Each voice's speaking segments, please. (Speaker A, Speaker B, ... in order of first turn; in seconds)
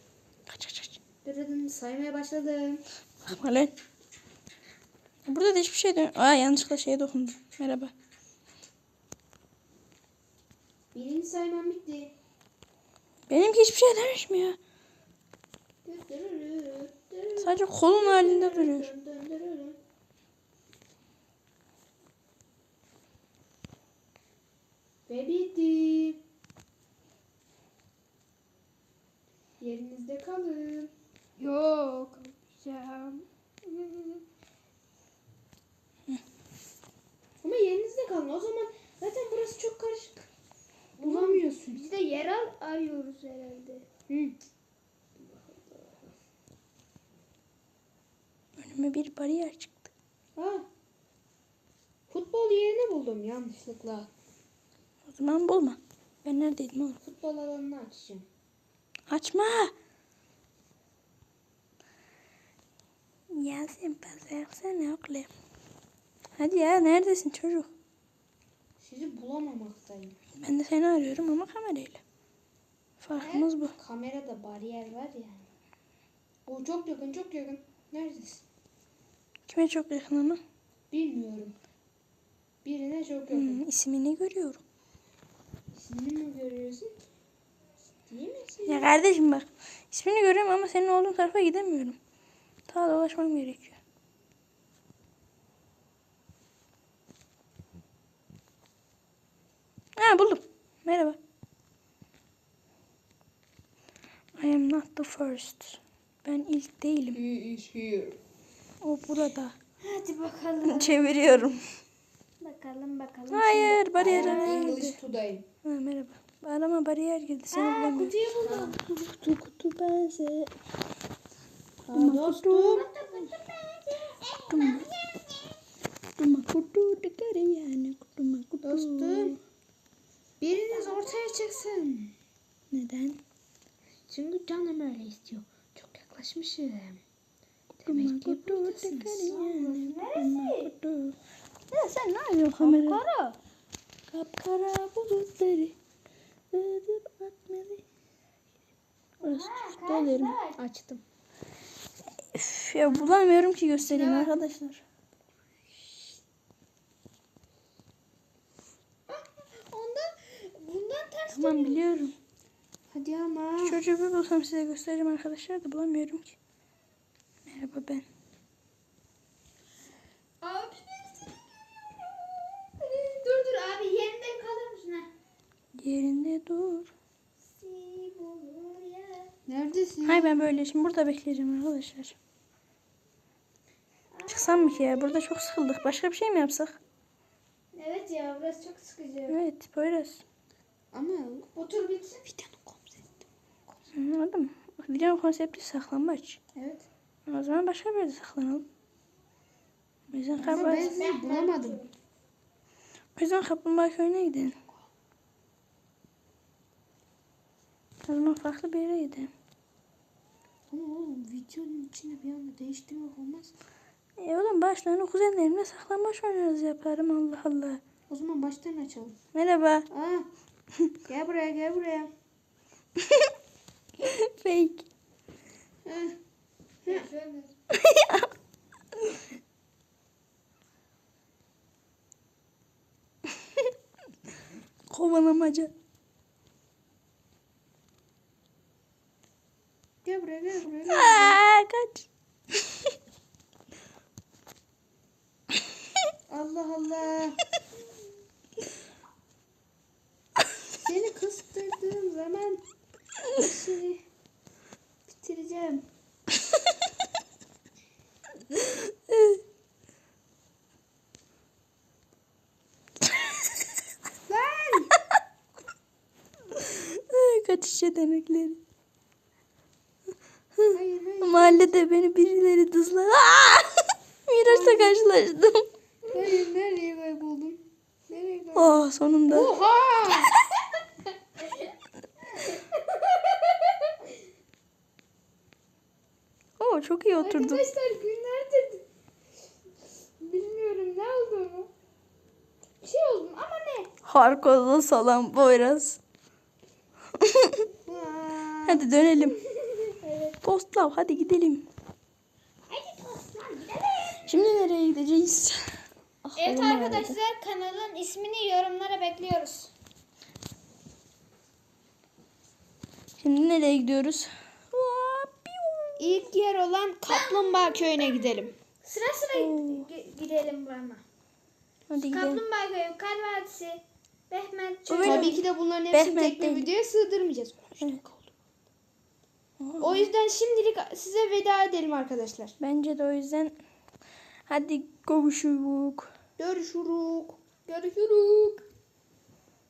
Speaker A: 0.5-1.0, 3.2-3.7, 5.2-7.9, 13.3-14.6, 17.4-18.9, 48.6-49.9, 55.0-57.0, 59.1-59.7, 63.3-65.3, 66.4-67.7, 70.4-72.0, 73.0-73.7, 79.5-80.4, 83.3-84.6, 88.7-92.0, 92.7-93.8, 100.0-101.2, 104.4-107.2, 108.8-109.5, 110.6-111.6, 113.3-115.0, 115.6-120.5, 121.9-122.8, 124.5-124.9, 126.2-129.4, 132.7-133.2, 137.8-141.2, 141.7-143.0, 144.1-145.7, 146.5-147.8, 149.2-150.3, 152.3-154.8, 161.3-162.1, 163.6-166.3, 167.5-168.1, 175.8-176.9, 180.0-182.2, 184.3-186.8, 189.3-190.2, 193.9-196.4, 197.2-198.7, 200.1-200.9, 203.2-204.6, 208.0-209.3, 214.2-217.8, 219.3-219.9, 224.0-224.9, 227.7-228.3, 234.9-235.7, 240.8-242.1, 259.1-259.4, 266.5-268.6, 270.6-275.6, 278.5-279.5, 286.6-287.6, 294.1-296.0, 297.2-297.7, 298.6-299.4, 300.4-301.7, 304.2-305.6, 306.2-307.2, 313.2-316.2, 319.3-319.9, 321.9-322.4, 324.9-326.7, 327.8-328.1, 329.6-330.1, 332.6-333.6, 334.5-336.1
Speaker B: 1.2-2.8, 10.9-12.1, 15.9-19.8, 25.1-26.2, 29.6-30.9, 37.4-40.2, 41.0-41.8, 44.1-44.3, 50.4-50.6, 52.1-54.1, 57.0-58.2, 68.8-70.2, 73.2-75.4, 76.5-78.4, 80.9-81.5, 82.6-83.6, 85.7-86.9, 88.1-88.9, 107.1-108.2, 114.0-115.4, 118.4-118.8, 121.9-122.8, 128.6-129.4, 130.4-132.1, 134.1-137.0, 137.8-139.5, 150.6-151.0, 162.9-163.8, 179.5-180.4, 190.9-191.5, 192.3-193.0, 196.6-196.8, 200.4-201.8, 210.7-213.5, 218.1-219.2, 219.9-220.3, 221.1-222.1, 225.8-226.2, 240.0-241.4, 246.3-247.4, 250.8-252.6, 253.4-254.0, 255.2-255.8, 264.3-264.9, 270.7-271.7, 274.4-275.1, 276.1-280.3, 297.9-298.9, 316.0-318.5, 325.0-328.0, 329.8-332.5, 336.4-338.6
Speaker C: 31.4-33.2, 41.0-43.9, 109.8-111.1, 112.4-114.8, 117.5-118.8, 122.6-125.5, 130.5-131.8, 139.3-140.7, 142.6-143.4, 149.2-150.6, 153.8-154.3, 159.1-161.8, 170.4-171.4, 172.8-175.1, 177.6-179.3, 184.1-185.7, 187.7-189.4, 191.6-192.3, 200.4-201.9, 226.8-227.5, 282.3-283.9, 287.2-288.8, 290.2-291.7, 292.8-293.9, 299.2-300.4, 302.7-304.4, 306.4-309.7, 317.1-318.3, 318.8-321.0, 322.1-325.4